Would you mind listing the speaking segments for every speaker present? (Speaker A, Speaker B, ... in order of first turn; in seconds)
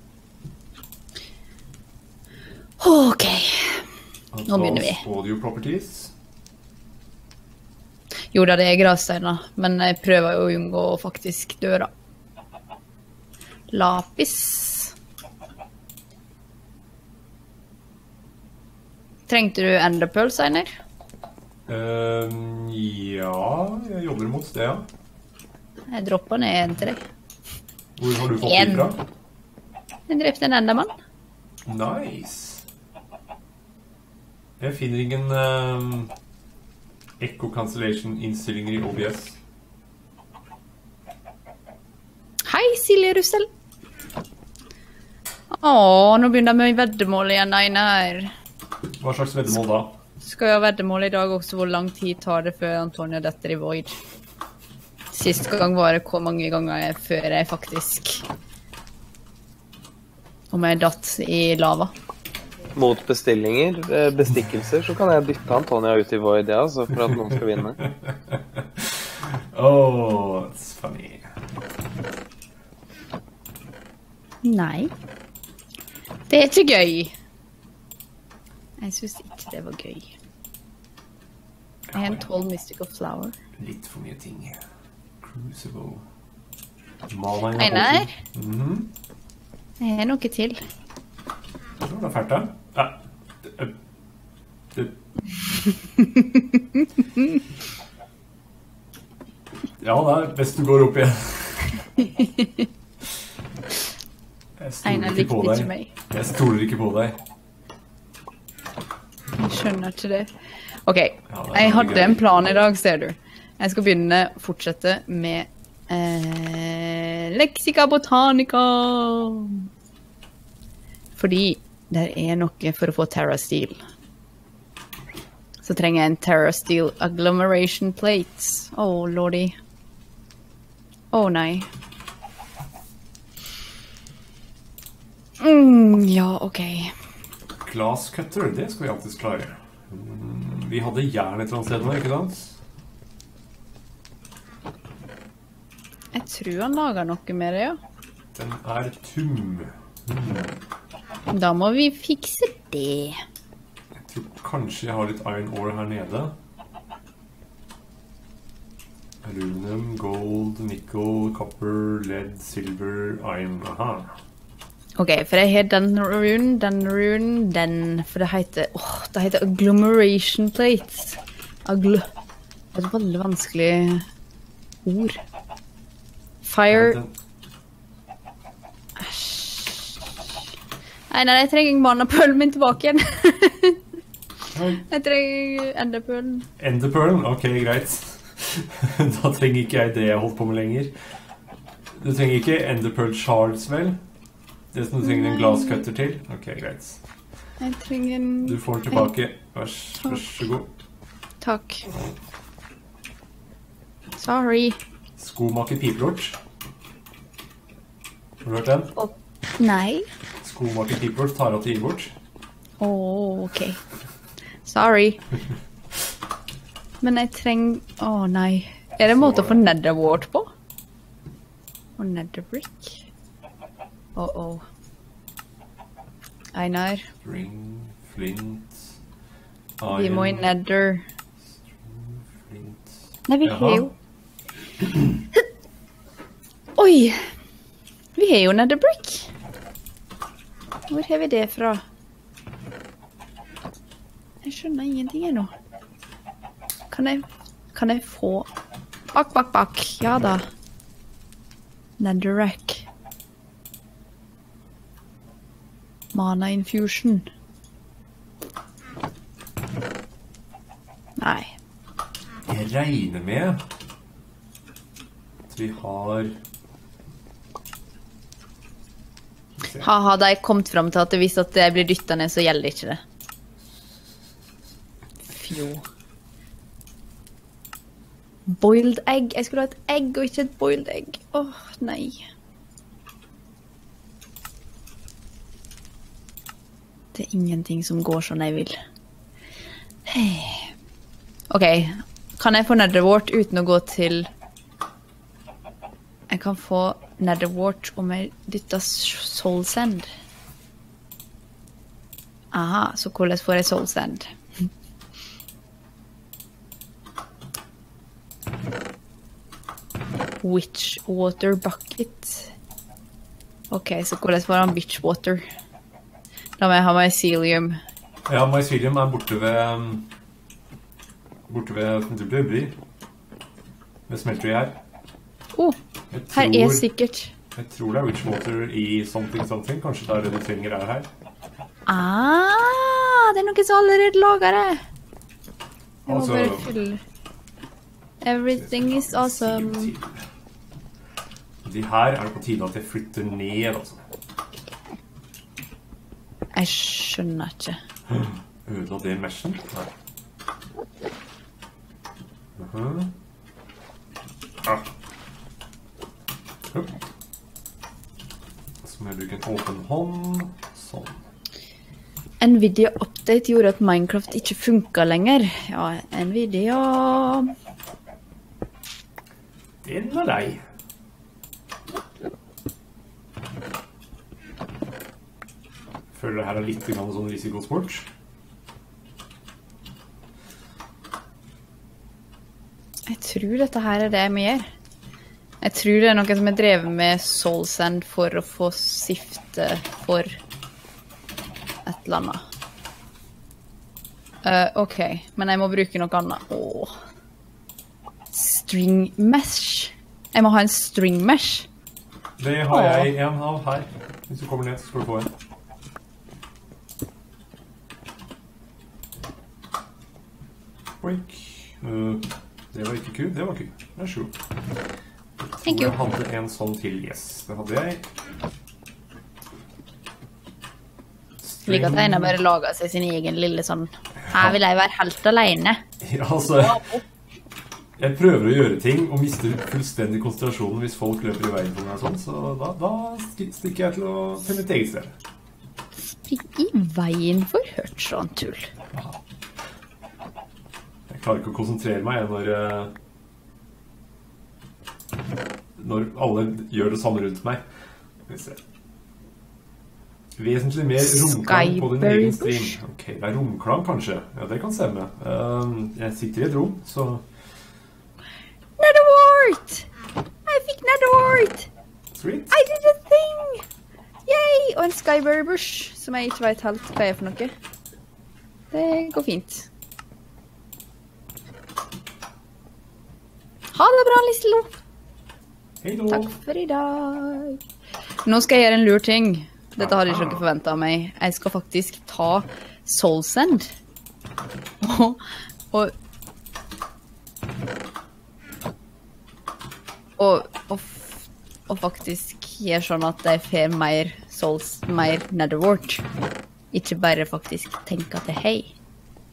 Speaker A: 2.8-3.9, 4.5-5.0, 8.3-11.9, 13.7-14.9, 19.3-20.7, 25.9-27.0, 28.4-28.9, 30.1-30.9, 42.4-43.5, 45.5-48.3, 50.2-54.0, 55.1-58.2, 60.5-61.9, 74.4-74.9, 76.3-77.1, 78.8-80.1, 81.9-83.3, 87.6-88.1, 89.8-90.6, 95.7-97.4, 102.0-102.7, 104.8-105.9, 109.4-110.3, 110.8-119.7, 121.2-123.8, 125.6-129.6, 131.1-131.7, 135.4-136.9, 146.1-147.8, 151.3-153.2, 165.0-172.1, 172.7-174.0, 174.8-175.2, 176.4-177.0, 179.0-180.1, 181.1-183.8, 184.9-186.5, 195.0-195.8, 197.6-199.1, 201.4-201.8, 204.2-204.8, 208.9-210.1, 212.8-213.8, 214.6-215.2, 217.0-220.5, 222.0-223.0, 224.2-224.6, 226.5-227.1, 229.9-231.0, 233.3-233.9, 236.8-237.3, 238.2-239.3, 240.9-241.8, 244.4-245.5, 246.9-248.5, 249.1-250.5, 252.0-252.8, 256.1-257.3, 261.2-261.5, 269.8-273.0, 275.3-275.8, 278.5-282.2, 287.1-288.8, 290.1-290.7, 291.5-294.3, 296.3-300.1, 302.5-304.3, 310.4-312.5, 313.7-315.4, 316.6-317.8, 326.3-327.3, 331.9-334.8, 336.1-337.0, 338.2-339.9, 346.5-347.8, 362.4-367.5, 383.1-384.7, 385.6-390.4, 391.8-392.4, 394.4-396.9, 398.3-401.7, 402.7-403.1, 415.6-415.9, 421.6-425.8, 426.5-427.0, 436.2-438.7, 451.0-452.8, 458.8-459.9, 460.5-461.7, 462.5-463.6, 464.3-467.5, 468.7-469.7, 473.7-474.7, 476.1-477.6, 478.2-483.7, 484.8-485.2, 490.2-496.0, 496.7-498.7
Speaker B: 4.3-6.1, 21.7-24.9, 28.0-29.0, 31.6-32.6, 34.6-36.1, 37.2-39.4, 49.0-49.9, 67.8-71.3, 81.9-82.2, 83.6-84.6, 85.2-86.0, 87.1-88.9, 91.8-93.8, 94.7-95.0, 99.8-101.8, 104.6-107.2, 111.3-112.2, 137.6-142.6, 148.3-150.6, 153.9-156.3, 159.2-164.1, 176.7-177.1, 184.5-184.8, 186.6-191.1, 191.9-194.0, 194.7-197.0, 198.4-200.7, 205.2-206.4, 208.4-208.9, 210.4-212.1, 219.0-219.6, 227.2-228.9, 229.8-230.5, 231.8-232.9, 233.4-233.9, 234.8-235.2, 262.5-263.6, 265.5-266.3, 269.6-269.9, 318.2-320.1, 321.5-322.8, 324.1-324.8, 326.1-326.9, 327.5-331.1, 336.1-336.7, 338.5-340.2, 341.6-344.0, 348.1-349.9, 352.6-353.1, 354.6-354.9, 356.7-357.0, 358.8-361.2, 369.8-370.6, 376.1-378.1, 402.4-405.3, 411.0-414.3, 415.4-418.1, 421.4-422.4, 426.0-426.8, 428.0-435.1, 438.9-439.2, 441.1-442.9, 445.8-447.6, 448.3-448.6, 450.4-457.2, 462.1-462.5, 475.8-476.3, 479.8-480.4
Speaker C: 62.7-67.8